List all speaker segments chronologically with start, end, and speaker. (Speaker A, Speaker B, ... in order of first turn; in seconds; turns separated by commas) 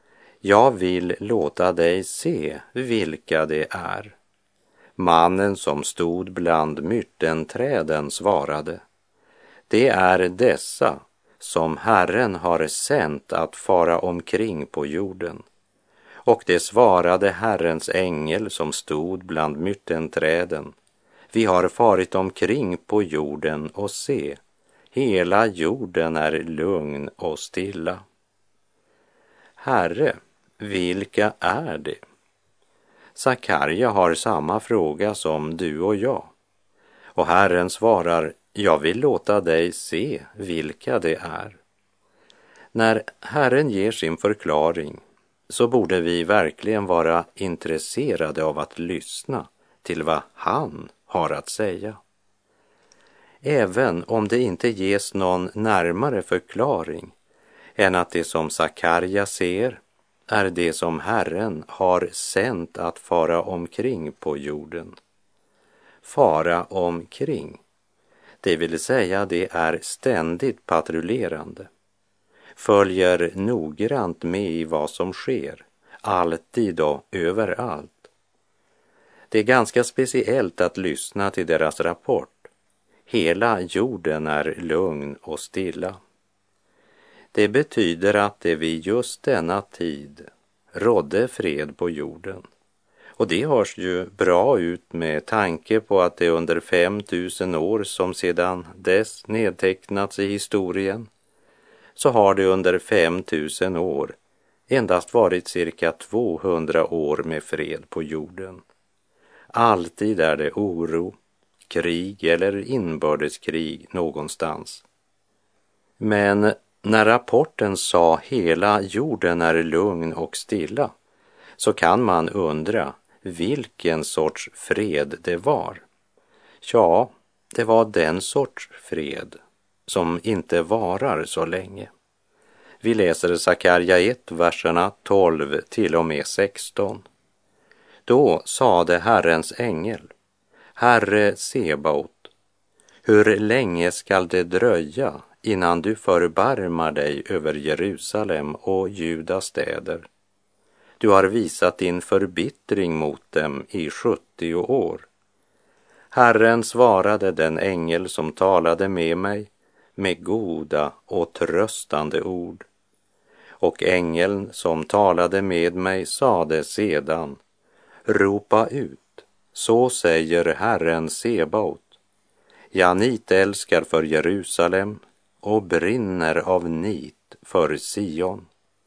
Speaker A: 0.4-4.2, Speaker A: 5.0-8.8, Speaker A: 9.7-15.4, Speaker A: 16.3-20.8, Speaker A: 21.3-24.4, Speaker A: 24.9-28.0, Speaker A: 29.6-32.0, Speaker A: 33.2-36.3, Speaker A: 37.2-41.6, Speaker A: 42.7-52.0, Speaker A: 53.4-57.1, Speaker A: 57.8-65.0, Speaker A: 66.0-67.6, Speaker A: 68.4-71.7, Speaker A: 72.6-78.1, Speaker A: 79.3-82.5, Speaker A: 83.1-86.0, Speaker A: 87.3-92.4, Speaker A: 93.2-101.1, Speaker A: 102.0-104.2, Speaker A: 104.7-108.6, Speaker A: 109.5-111.2, Speaker A: 111.7-114.8, Speaker A: 116.0-120.9, Speaker A: 121.6-125.8, Speaker A: 126.6-131.9, Speaker A: 132.8-137.1, Speaker A: 138.1-140.1, Speaker A: 140.8-142.3, Speaker A: 143.1-150.1, Speaker A: 151.0-155.1, Speaker A: 156.1-162.7, Speaker A: 163.6-167.4, Speaker A: 168.1-172.0, Speaker A: 172.7-178.5